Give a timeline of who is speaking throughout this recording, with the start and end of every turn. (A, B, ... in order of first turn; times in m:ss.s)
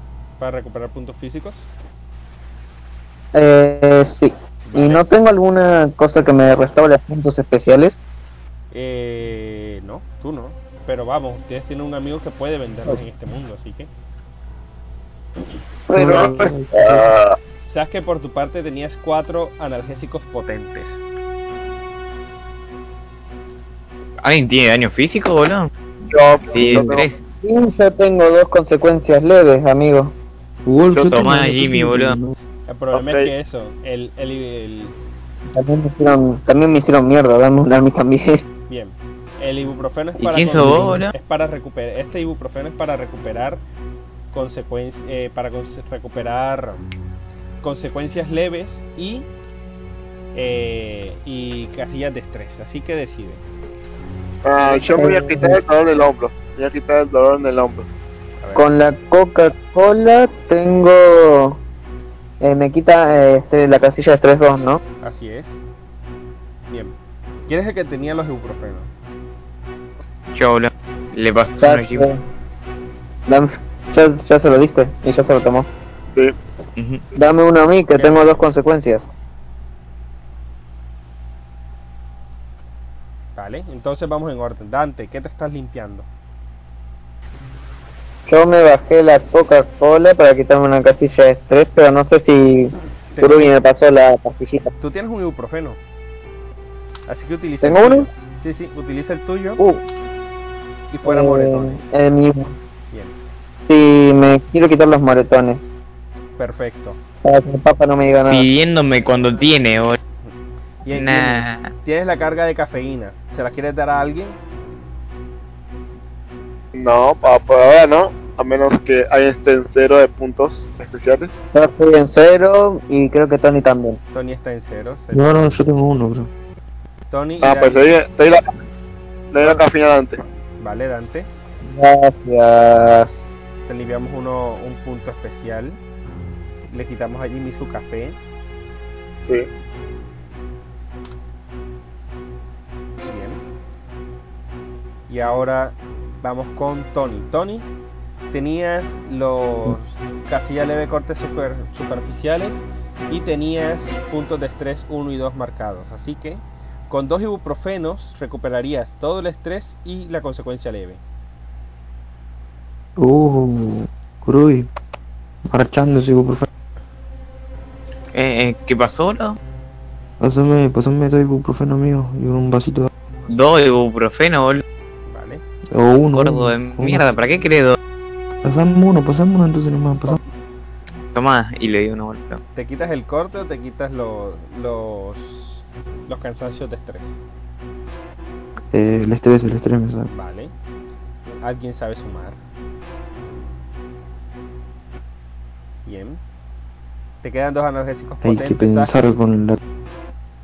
0:00.4-0:01.7 A
0:03.3-0:08.0 B
0:04.6-0:05.0 A
0:08.7-0:13.9 A
0:15.9-0:17.3 C
0:15.9-0:17.1 D
0:16.1-0:16.3 B
0:17.7-0:21.0 A
0:24.2-0:25.7 E
0:26.1-0:27.1 C
0:26.5-0:27.2 E
0:26.6-0:26.9 D
0:27.4-0:30.1 B
0:30.6-0:32.4 D
0:30.9-0:32.2 E
0:32.7-0:34.9 A
0:32.9-0:33.3 C
0:35.5-0:38.4 B
0:38.7-0:43.6 A
0:40.2-0:41.1 E
0:40.5-0:41.0 D
0:44.3-0:46.8 A
0:47.6-0:49.3 A
0:50.3-0:53.4 A
0:54.4-0:57.9 C
0:54.9-0:55.6 B
0:58.4-0:58.7 A
0:58.5-1:01.6 B
1:02.4-1:04.8 B
1:05.0-1:05.6 A
1:06.7-1:06.9 A
1:07.5-1:08.9 A
1:10.3-1:12.1 E
1:11.6-1:12.2 B
1:13.3-1:15.7 B
1:16.8-1:17.0 E
1:17.1-1:19.1 B
1:17.9-1:18.5 A
1:23.4-1:26.1 A
1:28.3-1:34.7 B
1:33.1-1:33.5 A
1:34.8-1:35.8 A
1:37.1-1:39.6 A
1:37.6-1:38.1 B
1:40.9-1:41.9 A
1:41.0-1:42.5 B
1:42.9-1:43.2 A
1:43.6-1:45.6 B
1:46.4-1:47.0 A
1:47.2-1:48.5 B
1:48.3-1:50.0 E
1:50.8-1:54.4 A
1:50.9-1:51.7 E
1:56.7-2:01.3 C
2:01.5-2:04.0 B
2:04.1-2:05.5 A
2:05.1-2:06.3 D
2:07.1-2:07.9 A
2:07.4-2:08.4 C
2:09.3-2:10.2 C
2:09.4-2:09.6 A
2:10.6-2:11.3 A
2:11.6-2:13.2 B
2:13.7-2:15.8 A
2:16.7-2:18.2 A
2:23.0-2:23.4 A
2:25.1-2:27.7 A
2:28.3-2:41.0 A
2:43.0-2:44.7 D
2:45.5-2:46.5 D
2:48.1-2:49.4 E
2:50.2-2:52.9 D
2:53.3-2:54.6 E
2:55.1-2:55.4 A
2:55.7-2:57.2 D
2:56.1-2:57.8 E
2:58.4-3:00.2 D
3:01.1-3:02.4 E
3:02.5-3:07.2 A
3:08.7-3:10.1 D
3:10.1-3:10.5 A
3:11.2-3:12.4 A
3:15.8-3:16.2 A
3:17.2-3:19.1 A
3:18.2-3:19.6 D